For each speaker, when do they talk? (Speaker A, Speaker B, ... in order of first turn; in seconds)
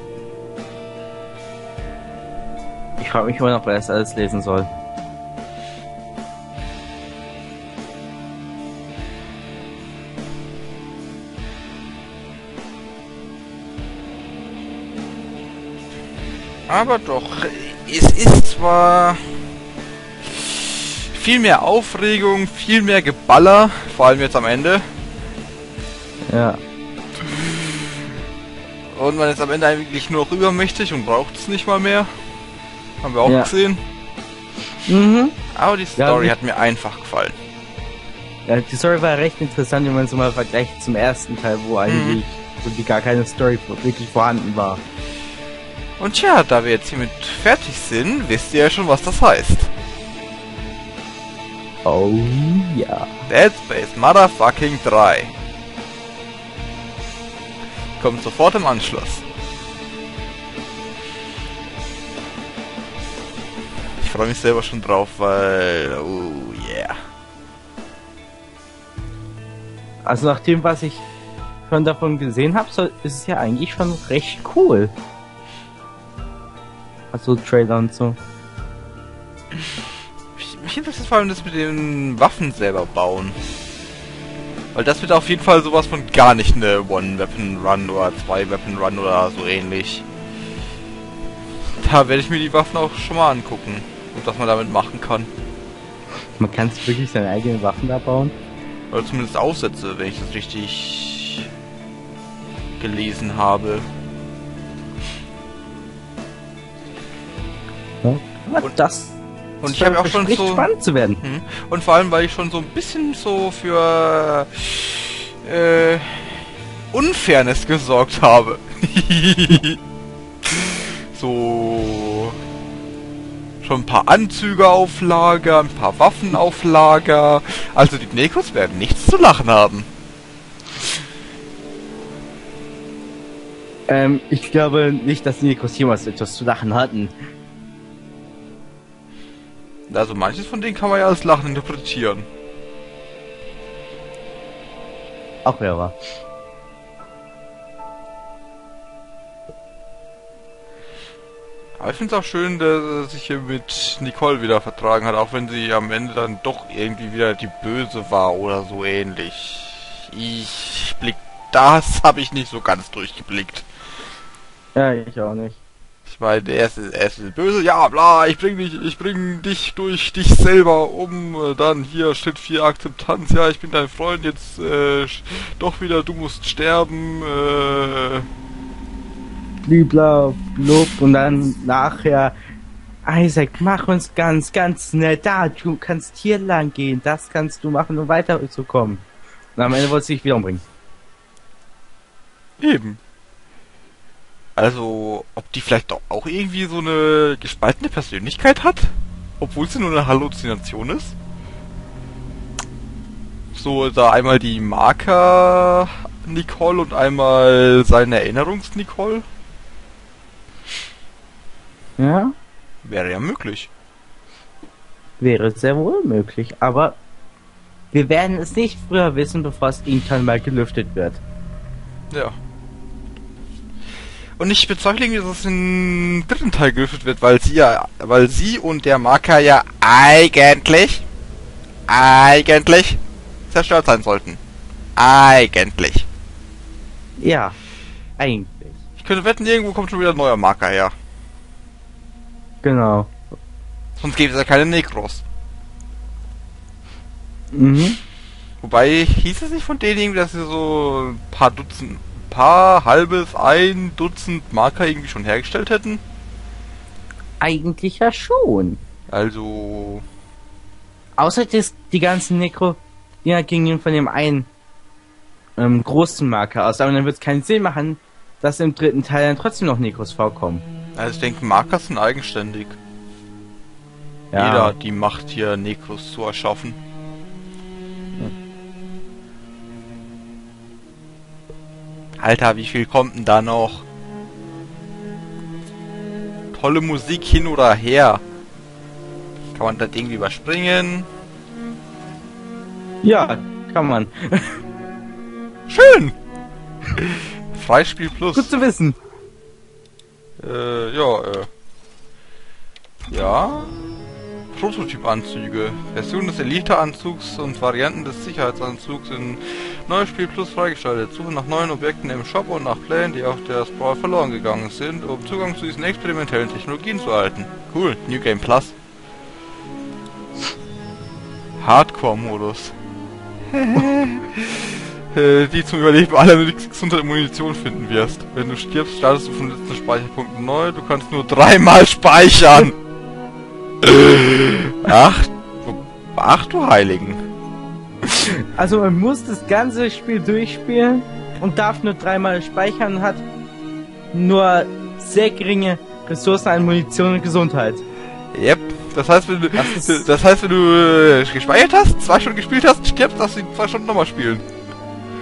Speaker A: 3.0-4.7, 26.3-26.6, 33.2-33.5, 34.9-35.4, 36.0-36.3, 38.5-44.8, 51.8-53.1, 70.0-71.0, 71.7-74.9, 77.1-78.2, 96.4-98.3, 108.0-111.2, 133.9-137.1, 145.4-145.9, 164.7-165.6, 179.7-182.3, 183.0-189.0, 189.6-190.6, 212.0-212.3, 215.2-217.0, 217.9-221.2, 237.2-237.6, 238.2-238.8, 242.6-243.2, 247.5-248.0, 257.4-258.8, 261.2-264.5, 265.6-270.6, 274.3-274.7, 293.0-294.6, 298.3-299.0, 338.5-343.2, 344.1-347.8, 349.6-350.0
Speaker B: 16.7-19.2, 20.2-24.9, 27.2-28.1, 28.9-32.1, 33.0-33.8, 35.5-37.4, 41.9-42.2, 46.0-49.7, 53.3-55.3, 58.0-59.2, 64.0-67.0, 80.4-83.4, 84.7-90.0, 91.8-95.3, 98.9-101.5, 102.8-103.8, 109.6-110.7, 111.2-119.8, 120.4-122.3, 123.6-129.9, 139.9-142.3, 151.8-163.6, 166.1-178.3, 192.6-193.0, 194.6-201.1, 203.5-209.2, 212.8-213.7, 222.1-222.4, 224.4-231.0, 231.9-234.4, 234.9-236.1, 239.0-240.9, 244.0-245.2, 248.6-256.0, 259.1-260.0, 271.0-272.8, 274.3-276.8, 282.2-283.8, 286.5-288.2, 289.5-291.1, 295.7-296.1, 297.0-298.5, 300.4-301.5, 303.1-303.7, 304.5-318.7, 321.6-322.7, 323.5-332.8, 333.8-337.2, 338.1-338.3, 348.3-354.4